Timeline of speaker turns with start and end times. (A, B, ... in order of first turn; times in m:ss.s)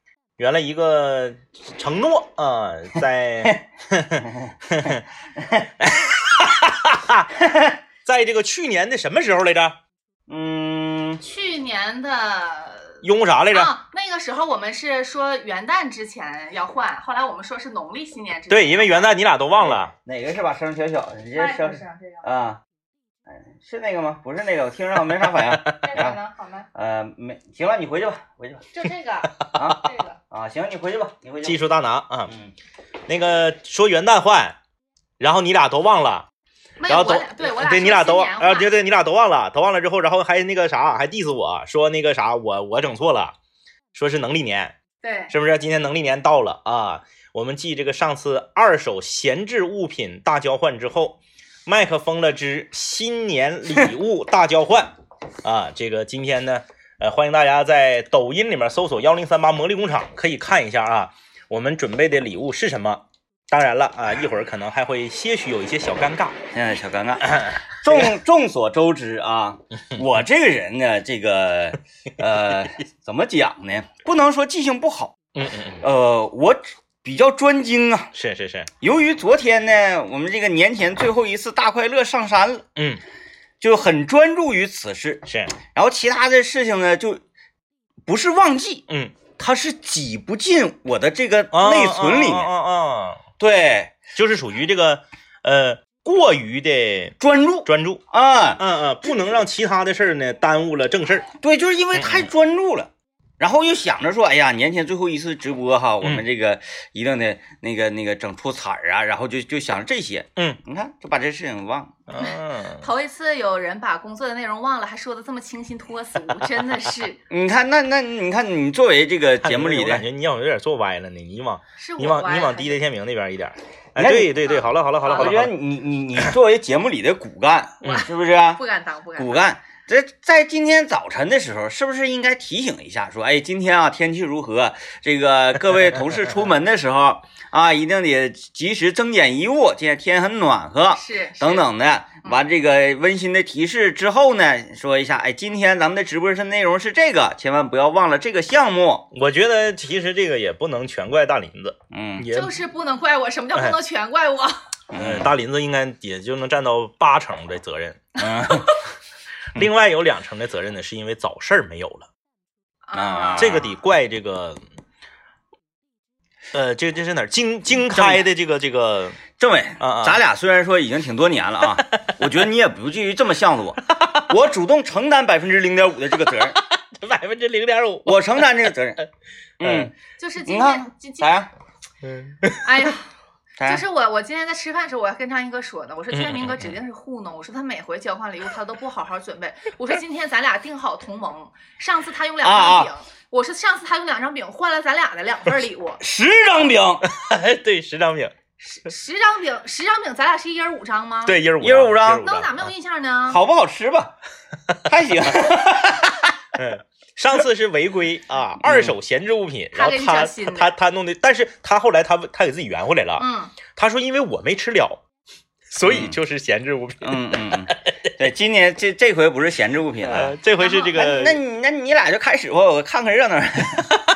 0:00.4-0:05.0 A
0:05.4-0:05.7 B
0:05.8-0:07.4 A
0:07.4-0:07.7 B
0:08.0-0:09.8 A
0:10.3-0:11.2 B
0:11.2-0:19.1 C
0:13.0-0:13.7 A
0:18.5-0:19.9 A
0:19.5-0:22.6 B
0:21.3-0:22.2 C
0:23.3-0:26.2 B
0:25.4-0:25.8 A
0:25.7-0:26.7 C
0:26.7-0:28.6 B
0:28.7-0:30.2 C
0:29.5-0:31.6 B
0:31.4-0:32.3 A
0:33.1-0:34.6 A
0:35.2-0:36.2 A
0:36.8-0:38.7 C
0:36.9-0:43.3 A
0:43.9-0:44.8 A
0:45.0-0:45.3 C
0:45.3-0:54.9 A
0:55.4-1:06.4 A
1:06.5-1:15.2 B
1:07.2-1:08.1 A
1:15.4-1:15.8 A
1:15.8-1:18.1 B
1:18.1-1:18.7 A
1:18.8-1:22.6 B
1:22.8-1:23.0 A
1:23.6-1:27.2 B
1:25.3-1:25.5 A
1:28.0-1:28.8 B
1:28.9-1:29.2 A
1:29.4-1:32.5 B
1:31.5-1:33.2 A
1:33.4-1:34.0 B
1:34.1-1:38.0 A
1:37.2-1:38.6 B
1:38.6-1:41.3 A
1:41.4-1:51.9 B
1:41.9-1:42.3 A
1:52.1-1:52.8 A
1:52.2-1:57.2 C
1:57.3-2:00.0 B
1:59.4-2:05.5 A
2:01.8-2:02.8 C
2:04.0-2:04.5 B
2:04.4-2:05.4 C
2:05.0-2:08.6 B
2:08.6-2:09.4 C
2:09.2-2:29.0 B
2:20.9-2:21.7 C
2:29.1-2:32.6 A
2:31.9-2:32.2 B
2:32.3-2:34.6 C
2:34.9-2:35.3 B
2:34.9-2:38.0 A
2:38.2-2:38.8 B
2:39.5-2:42.1 A
2:42.8-2:43.6 C
2:42.9-2:43.7 B
2:43.4-2:44.6 A
2:46.5-2:49.3 A
2:47.8-2:48.2 B
2:49.4-2:56.6 B
2:49.8-2:50.2 A
2:56.5-2:59.0 A
2:58.0-2:59.0 B
2:59.6-2:59.9 B
2:59.6-2:59.9 A
3:00.2-3:01.3 C
3:00.4-3:01.5 B
3:02.0-3:02.6 A
3:02.6-3:03.1 C
3:03.6-3:16.0 C
3:06.1-3:06.7 A
3:12.4-3:12.9 B
3:16.0-3:17.1 B
3:17.0-3:18.3 A
3:18.6-3:21.4 C
3:21.2-3:22.7 A
3:21.6-3:22.2 B
3:22.2-3:23.4 C
3:23.3-3:24.1 B
3:24.8-3:26.3 B
3:26.5-3:35.0 A
3:28.6-3:28.9 B
3:29.7-3:30.7 C
3:33.2-3:33.5 C
3:35.7-3:37.7 A
3:35.8-3:36.2 B
3:37.0-3:40.4 B
3:40.0-3:41.4 A
3:40.6-3:41.0 C
3:40.9-3:44.0 B